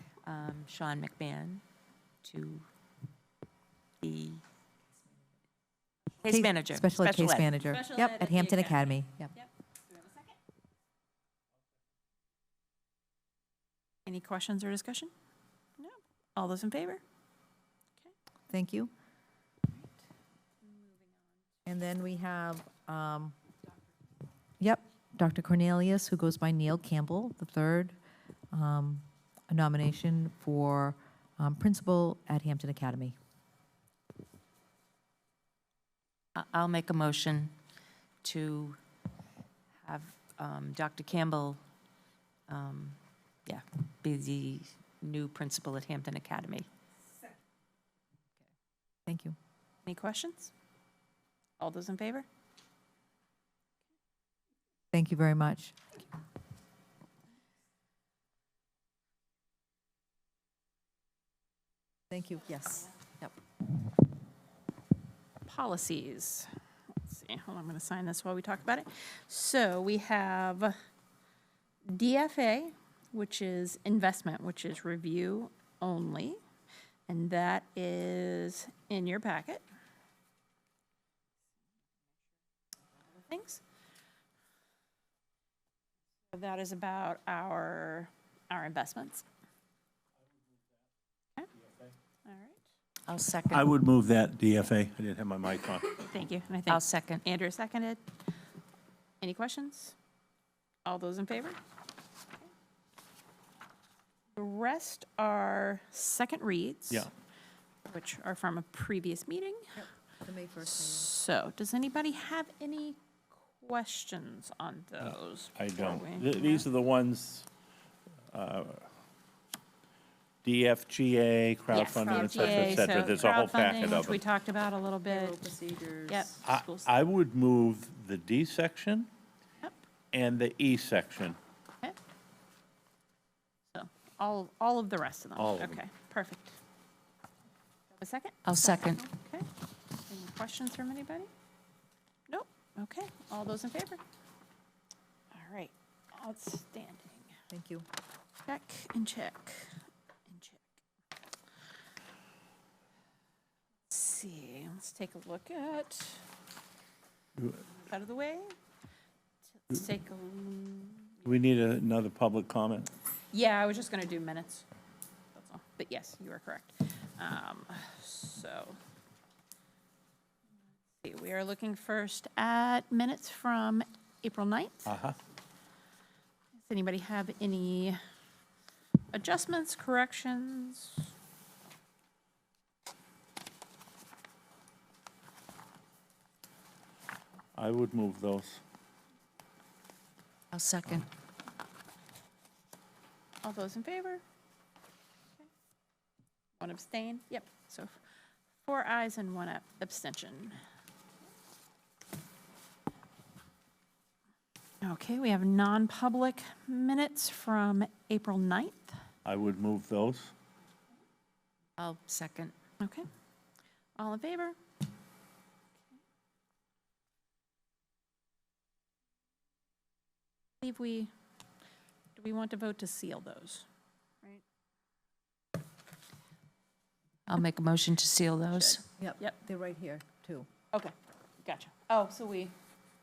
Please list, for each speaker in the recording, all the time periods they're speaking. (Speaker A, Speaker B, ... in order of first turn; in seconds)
Speaker A: 0.2-1.6, 2.2-2.6, 4.0-4.4, 6.2-7.5, 36.3-37.5, 38.2-38.8, 39.8-41.6, 42.5-46.7, 93.1-93.7, 96.7-97.2, 138.4-139.0, 190.5-191.1, 211.8-212.5, 227.3-228.8
Speaker B: 6.2-9.3, 18.5-18.9, 21.6-23.3, 24.6-28.0, 28.5-33.1, 49.0-49.4, 54.9-55.8, 62.1-63.3, 109.8-111.1, 122.1-123.1, 125.1-126.3, 147.5-147.8, 229.0-230.5
Speaker C: 7.5-10.3, 14.1-15.1, 15.8-17.0, 20.6-21.2, 49.8-50.5, 51.6-52.3, 65.5-70.7, 71.8-76.4, 77.1-79.7, 83.2-83.6, 86.3-89.2, 92.2-92.6, 96.0-98.1, 99.2-99.9, 100.8-101.6, 104.3-107.1, 107.8-109.7, 110.7-116.7, 121.7-125.4, 126.1-126.9, 133.7-136.6, 138.0-139.5, 140.1-141.3, 142.3-144.0, 145.3-147.3, 148.4-150.7, 153.9-156.2, 157.7-158.5, 159.7-161.2, 163.3-164.6, 165.3-168.8, 171.0-174.9, 176.6-178.0, 179.1-181.1, 193.4-194.2, 196.6-197.9, 198.6-200.6, 204.8-209.0, 212.8-213.1, 214.0-214.6, 220.6-221.1, 222.2-223.7, 228.5-229.4, 230.7-232.5
Speaker D: 93.5-96.0, 115.5-117.5, 118.3-118.9, 120.4-124.2, 126.5-129.1, 130.1-131.4, 135.4-135.8, 161.2-162.9, 174.9-175.1, 187.6-188.6, 209.2-210.3